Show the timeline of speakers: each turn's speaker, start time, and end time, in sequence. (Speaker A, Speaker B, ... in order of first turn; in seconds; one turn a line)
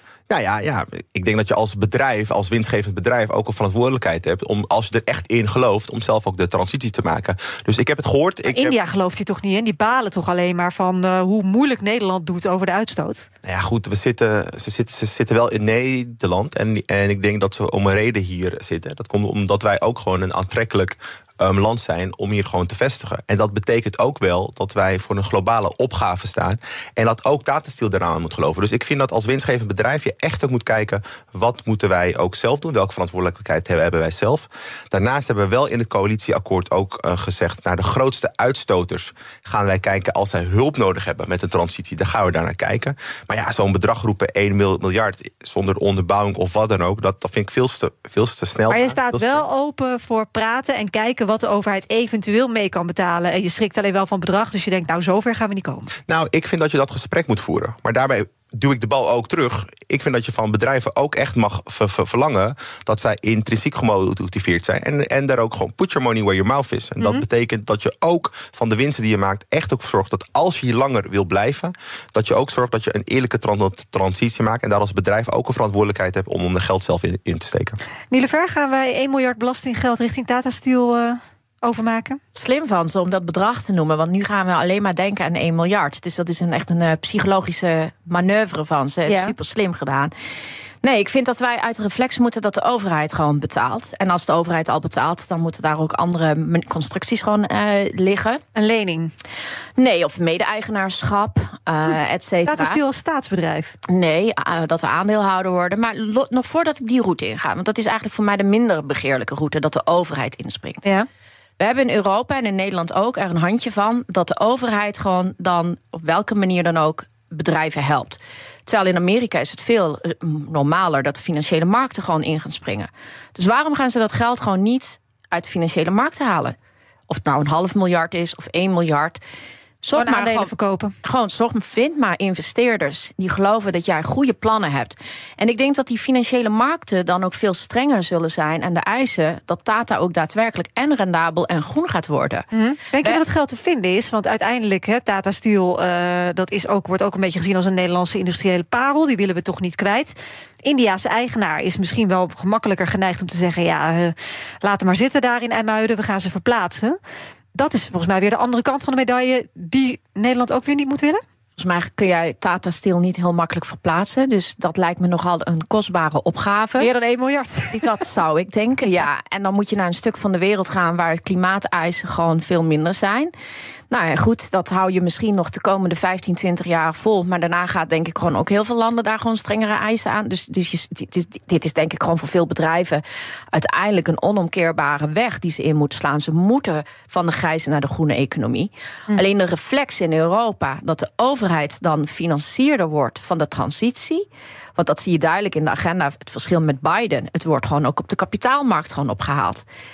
Speaker A: 0.3-8.8
Speaker B: 8.5-13.3
Speaker A: 13.4-49.4
Speaker B: 48.7-55.9
Speaker A: 56.1-77.8
Speaker B: 67.0-67.2
Speaker B: 78.1-82.2
Speaker C: 82.3-90.1
Speaker B: 89.1-89.3
Speaker C: 90.8-98.4
Speaker B: 98.5-99.1
Speaker C: 99.8-102.8
Speaker B: 102.5-103.7
Speaker C: 103.9-110.8
Speaker C: 111.6-126.5
Speaker C: 127.1-129.2
Speaker C: 129.8-130.5
Speaker B: 129.9-130.9
Speaker C: 131.0-142.5
Speaker B: 142.5-157.0
Speaker B: 157.5-161.2
Speaker C: 161.6-166.9
Speaker B: 166.8-167.9
Speaker C: 167.7-173.3
Speaker C: 173.9-194.2
Speaker C: 194.8-199.6